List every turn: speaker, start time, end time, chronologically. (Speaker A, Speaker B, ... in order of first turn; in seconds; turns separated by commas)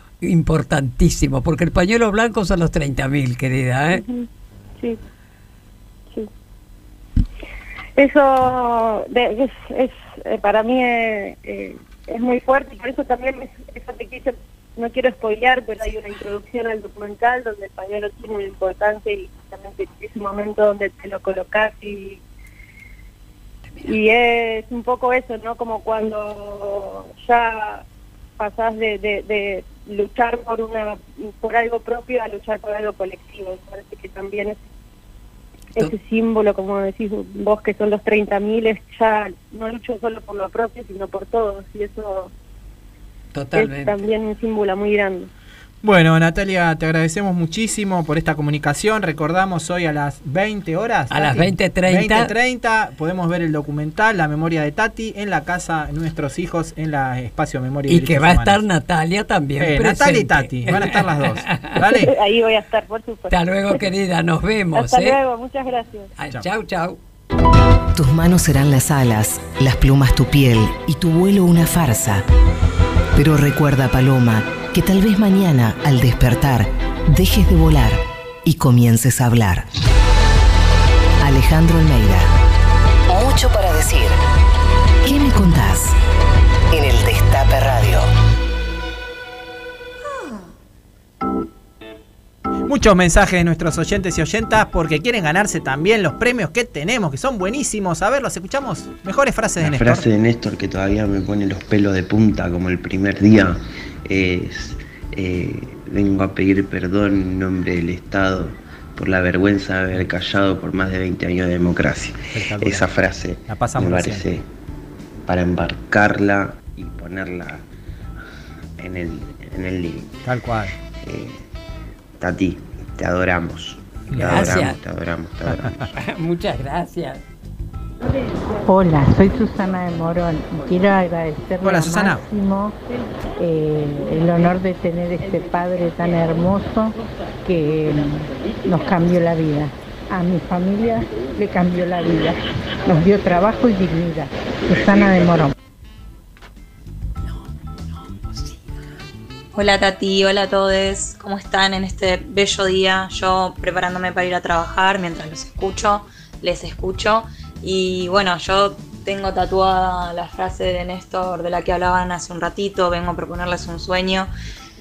Speaker A: 0.2-4.0, Speaker B: 3.9-4.3, Speaker B: 8.0-22.2, Speaker B: 23.8-27.9, Speaker B: 28.4-34.6, Speaker B: 35.8-42.3, Speaker A: 43.3-44.0, Speaker B: 43.5-45.3, Speaker C: 45.8-58.6, Speaker A: 51.1-52.3, Speaker A: 57.9-61.8, Speaker C: 59.6-62.1, Speaker B: 61.9-63.8, Speaker A: 63.3-65.2, Speaker B: 64.7-66.1, Speaker A: 66.2-67.0, Speaker D: 67.9-72.2, Speaker D: 73.2-79.7, Speaker D: 81.2-82.3, Speaker D: 83.1-84.2, Speaker D: 85.0-86.0, Speaker D: 86.7-88.1, Speaker C: 92.7-100.1, Speaker E: 99.6-114.5, Speaker C: 112.3-112.9, Speaker C: 113.5-114.2, Speaker E: 115.3-117.7, Speaker E: 118.8-120.1, Speaker C: 120.2-120.7, Speaker E: 121.0-121.5, Speaker E: 122.2-125.9, Speaker C: 124.1-124.5, Speaker A: 124.2-124.8, Speaker C: 125.4-125.7, Speaker A: 125.9-127.2, Speaker F: 128.6-132.7, Speaker C: 131.6-132.2, Speaker F: 133.4-145.5, Speaker A: 148.0-148.6, Speaker G: 149.5-164.3